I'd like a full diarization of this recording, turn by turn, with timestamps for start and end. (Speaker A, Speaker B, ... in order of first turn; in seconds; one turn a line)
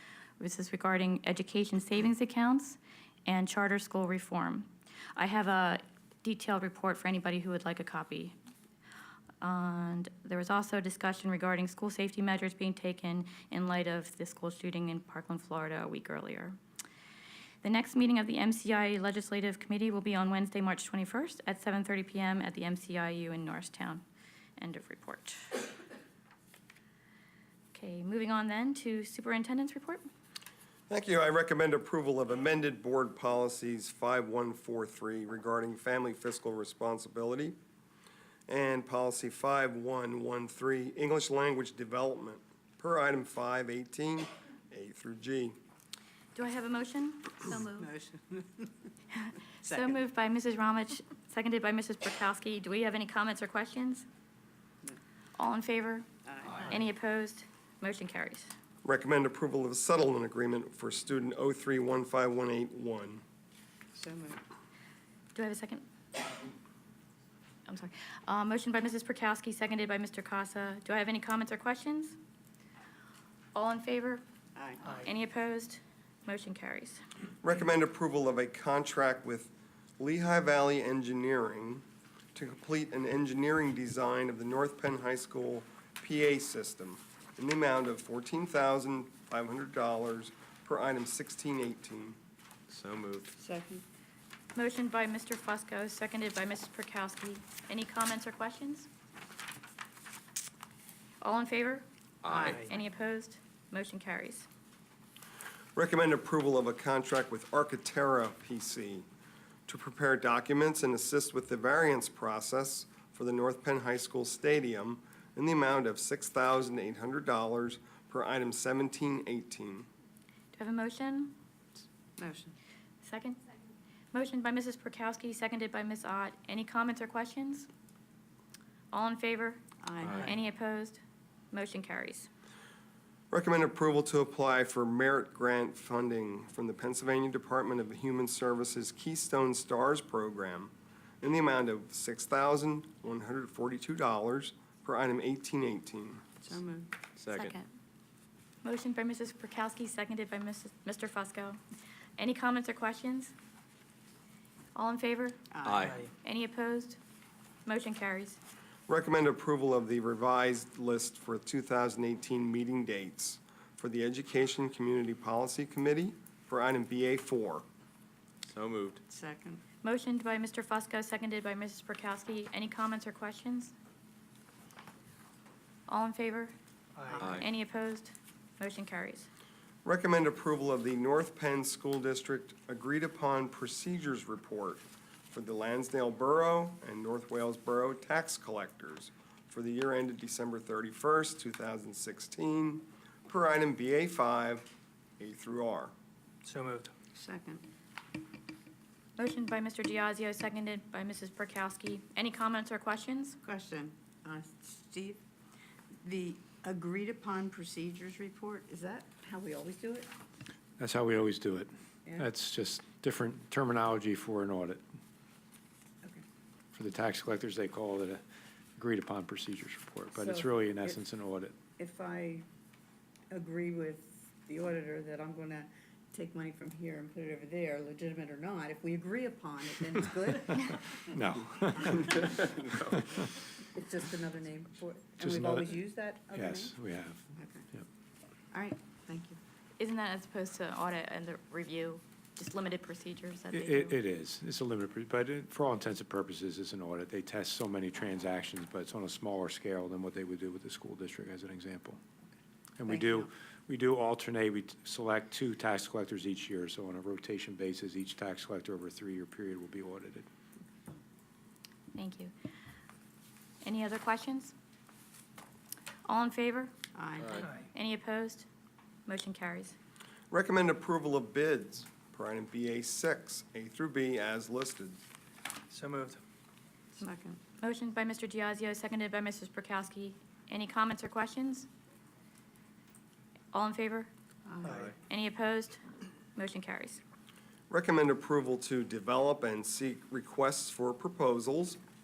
Speaker A: 0.4-8.3
Speaker A: 9.4-16.6
Speaker A: 17.6-24.0
Speaker A: 24.6-25.6
Speaker A: 27.7-30.1
Speaker B: 30.9-37.6
Speaker B: 38.5-45.5
Speaker A: 46.4-47.5
Speaker C: 47.5-48.7
Speaker A: 49.1-54.1
Speaker C: 49.6-50.0
Speaker A: 55.4-58.5
Speaker C: 56.3-56.7
Speaker B: 58.8-63.2
Speaker C: 63.9-64.4
Speaker A: 65.3-65.9
Speaker A: 67.7-72.2
Speaker A: 73.5-74.2
Speaker C: 74.5-74.8
Speaker A: 75.0-77.0
Speaker B: 77.4-92.2
Speaker D: 92.7-93.3
Speaker C: 93.4-93.8
Speaker A: 94.5-98.9
Speaker A: 101.2-101.8
Speaker D: 102.2-102.6
Speaker C: 102.3-102.7
Speaker A: 102.5-104.5
Speaker B: 105.8-109.1
Speaker B: 109.7-119.9
Speaker A: 120.5-121.3
Speaker C: 122.2-122.5
Speaker A: 123.0-123.4
Speaker A: 124.1-127.7
Speaker A: 128.9-129.6
Speaker C: 129.8-130.3
Speaker A: 130.2-131.0
Speaker A: 131.5-132.3
Speaker B: 133.3-146.2
Speaker C: 146.4-146.9
Speaker D: 147.2-147.6
Speaker A: 148.6-151.6
Speaker A: 152.2-153.3
Speaker A: 154.8-155.6
Speaker C: 155.5-155.9
Speaker D: 155.6-156.0
Speaker E: 155.8-156.1
Speaker A: 156.2-157.0
Speaker A: 157.7-158.4
Speaker B: 158.9-167.7
Speaker D: 168.4-169.0
Speaker C: 169.1-169.6
Speaker A: 169.8-173.8
Speaker A: 175.9-176.5
Speaker E: 177.0-177.3
Speaker A: 177.2-179.3
Speaker D: 177.2-177.5
Speaker B: 179.8-194.7
Speaker B: 195.2-195.9
Speaker E: 196.4-196.9
Speaker C: 197.1-197.6
Speaker A: 199.2-203.4
Speaker C: 203.4-205.2
Speaker C: 206.0-210.1
Speaker F: 210.8-214.8
Speaker F: 216.7-218.2
Speaker F: 218.8-221.6
Speaker C: 220.1-220.9
Speaker C: 221.8-222.4
Speaker C: 223.3-231.0
Speaker F: 230.5-232.3
Speaker C: 233.7-236.7
Speaker F: 235.2-237.2
Speaker C: 237.4-237.7
Speaker C: 238.5-239.4
Speaker A: 239.8-244.0
Speaker F: 243.5-252.0
Speaker F: 252.8-260.3
Speaker C: 252.9-253.3
Speaker A: 261.9-262.3
Speaker A: 263.6-264.5
Speaker A: 266.1-266.7
Speaker C: 266.9-267.4
Speaker D: 267.2-267.5
Speaker E: 267.4-267.7
Speaker A: 267.7-268.5
Speaker A: 269.1-269.8
Speaker B: 270.3-275.0
Speaker E: 275.7-276.2
Speaker C: 277.0-277.4
Speaker A: 277.6-281.7
Speaker A: 283.5-284.1
Speaker C: 284.5-284.9
Speaker E: 284.6-284.9
Speaker A: 285.1-285.8
Speaker A: 286.4-287.0
Speaker B: 287.7-291.8